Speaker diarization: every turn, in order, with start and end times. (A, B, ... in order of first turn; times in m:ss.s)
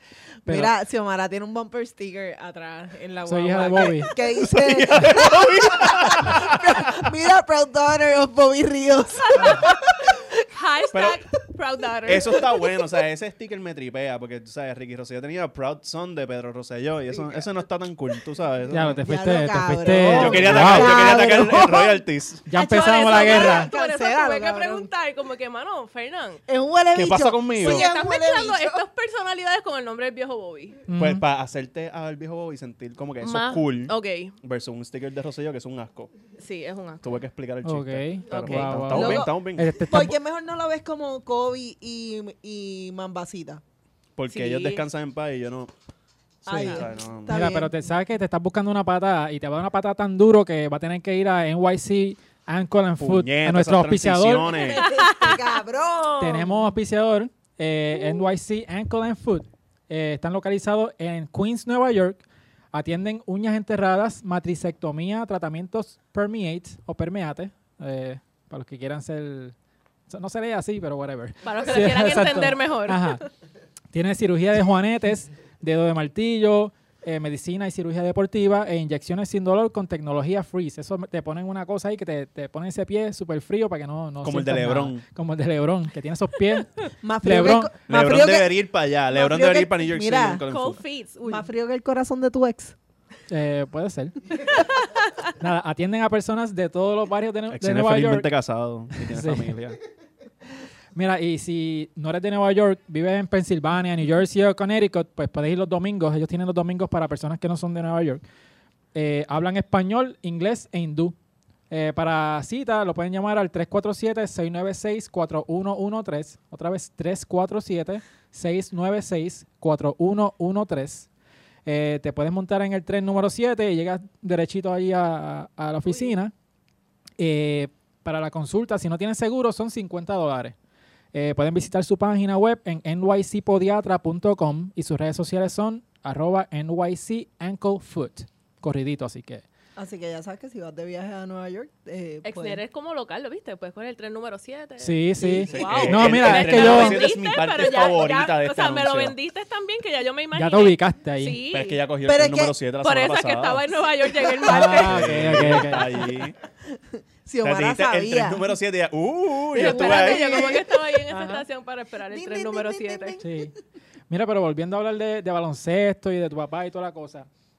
0:00.4-0:10.4 A
0:00.5-0:00.7 B
0:03.3-0:04.1 B
0:04.2-0:07.1 C
0:09.2-0:09.8 D
0:10.5-0:12.7 D
0:10.9-0:11.2 C
0:12.1-0:19.0 C
0:17.1-0:17.5 A
0:18.7-0:21.5 B
0:19.0-0:24.9 A
0:19.9-0:22.5 C
0:22.5-0:23.7 B
0:22.6-0:26.4 D
0:26.5-0:28.8 A
0:26.9-0:27.9 C
0:27.6-0:30.8 D
0:30.9-0:31.2 B
0:30.9-0:36.1 C
0:33.2-0:34.4 D
0:36.4-0:37.0 D
0:37.0-0:39.8 C
0:37.6-0:40.2 B
0:38.9-0:43.6 A
0:44.2-0:45.7 C
0:44.3-0:44.8 D
0:46.5-0:46.9 D
0:46.5-0:47.9 A
0:46.5-0:47.4 C
0:47.3-0:54.5 B
0:53.0-0:54.9 C
0:54.5-0:56.6 A
0:54.7-0:56.4 D
0:56.2-1:02.2 B
1:02.7-1:09.6 B
1:10.1-1:13.2 B
1:11.4-1:13.3 D
1:13.9-1:27.7 B
1:24.2-1:25.0 C
1:27.0-1:30.4 A
1:27.9-1:30.8 C
1:30.5-1:31.5 D
1:31.2-1:32.8 A
1:33.3-1:34.2 B
1:34.6-1:34.9 D
1:35.4-1:38.3 B
1:37.5-1:39.8 C
1:39.0-1:39.5 B
1:41.0-1:48.2 B
1:48.9-1:51.2 B
1:51.7-2:01.1 B
2:01.7-2:06.3 B
2:05.9-2:06.2 D
2:07.2-2:10.6 B
2:11.1-2:19.4 B
2:19.8-2:22.6 A
2:22.2-2:31.8 D
2:24.8-2:27.0 B
2:25.2-2:25.5 A
2:25.5-2:29.1 C
2:30.4-2:31.4 B
2:31.5-2:33.6 C
2:32.0-2:32.6 A
2:32.8-2:35.7 D
2:34.2-2:34.9 A
2:34.5-2:36.0 B
2:34.7-2:36.4 C
2:36.7-2:38.6 A
2:37.4-2:40.6 C
2:39.5-2:43.2 D
2:39.6-2:41.3 A
2:41.1-2:41.4 B
2:42.1-2:43.6 A
2:43.2-2:43.6 B
2:44.1-2:47.3 B